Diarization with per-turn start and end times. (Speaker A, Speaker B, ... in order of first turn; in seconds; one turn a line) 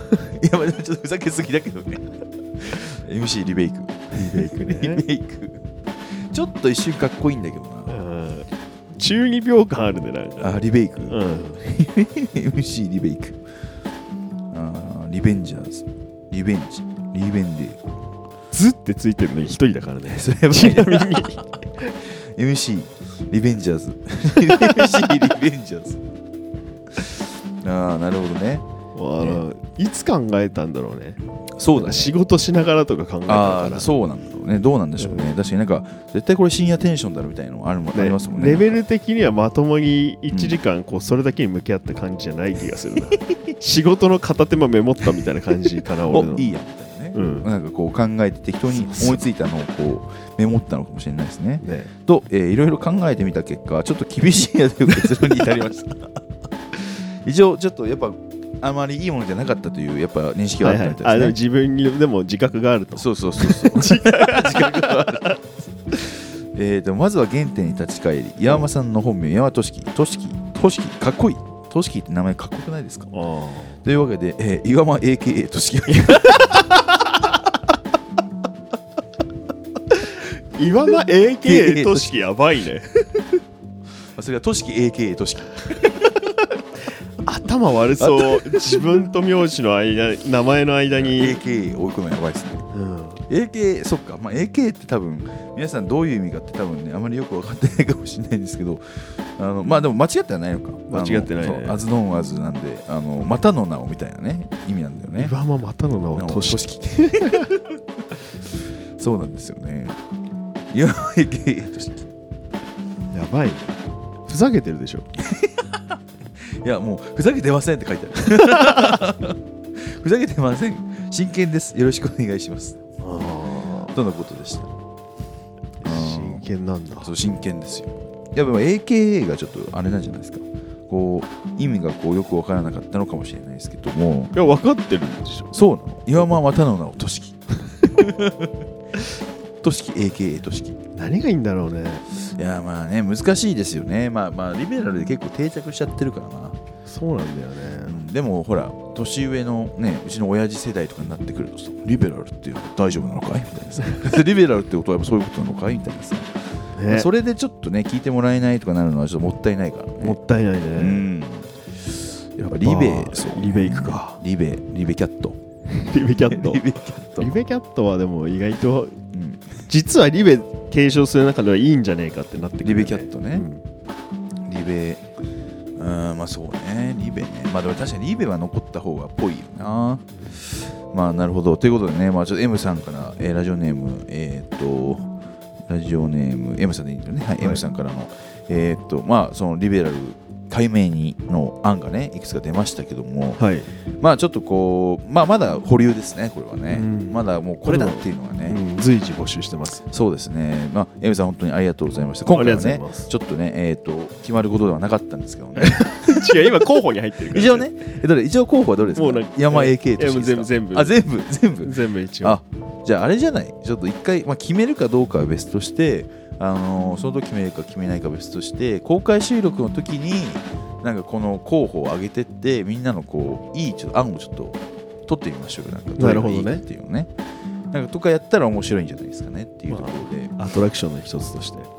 Speaker A: 0.1-2.0
Speaker A: 2.6-8.0
Speaker B: 4.1-5.0
Speaker B: 7.9-11.6
Speaker A: 10.4-13.4
Speaker A: 14.5-17.8
Speaker B: 18.5-21.9
Speaker A: 20.1-21.4
Speaker A: 22.0-26.0
Speaker B: 24.4-25.1
Speaker A: 26.9-28.6
Speaker B: 28.9-31.2
Speaker A: 31.6-32.1
Speaker B: 31.7-33.9
Speaker A: 33.3-38.8
Speaker B: 35.0-35.3
Speaker B: 37.9-46.5
Speaker A: 40.3-40.6
Speaker A: 46.1-56.2
Speaker B: 47.1-47.5
Speaker B: 48.7-49.2
Speaker B: 51.6-51.9
Speaker A: 56.7-61.3
Speaker B: 60.6-65.4
Speaker A: 63.0-73.1
Speaker B: 73.1-73.8
Speaker A: 73.8-76.8
Speaker B: 75.9-76.8
Speaker B: 80.5-82.9
Speaker A: 81.4-82.2
Speaker A: 84.1-86.3
Speaker B: 87.2-91.4
Speaker A: 88.0-89.0
Speaker A: 91.0-92.6
Speaker B: 92.7-93.2
Speaker A: 93.3-105.3
Speaker B: 100.9-101.8
Speaker B: 105.2-107.5
Speaker A: 106.2-107.8
Speaker A: 109.0-110.0
Speaker A: 110.7-112.1
Speaker B: 113.1-115.1
Speaker A: 115.2-122.8
Speaker B: 123.0-123.9
Speaker A: 123.9-124.7
Speaker B: 125.8-127.1
Speaker A: 125.8-126.5
Speaker A: 127.0-134.3
Speaker B: 134.3-135.5
Speaker A: 135.5-138.5
Speaker A: 139.6-140.8
Speaker B: 140.9-142.3
Speaker A: 142.3-146.6
Speaker B: 146.8-148.0
Speaker A: 147.8-156.3
Speaker B: 156.7-157.1
Speaker A: 156.9-160.2
Speaker B: 160.0-161.1
Speaker A: 160.8-161.5
Speaker A: 162.4-165.4
Speaker B: 162.4-164.2
Speaker B: 165.7-169.0
Speaker A: 166.3-167.3
Speaker A: 169.1-169.6
Speaker B: 169.7-173.6
Speaker A: 172.6-173.5
Speaker A: 174.4-175.1
Speaker A: 175.8-185.1
Speaker A: 185.7-193.4
Speaker B: 193.4-193.7
Speaker A: 194.0-198.6
Speaker B: 196.7-199.8
Speaker A: 199.9-206.4
Speaker B: 202.3-203.1
Speaker B: 205.6-207.7
Speaker A: 207.3-227.1
Speaker B: 208.9-211.0
Speaker B: 211.6-212.4
Speaker B: 226.0-226.6
Speaker A: 227.7-230.3
Speaker B: 229.7-231.7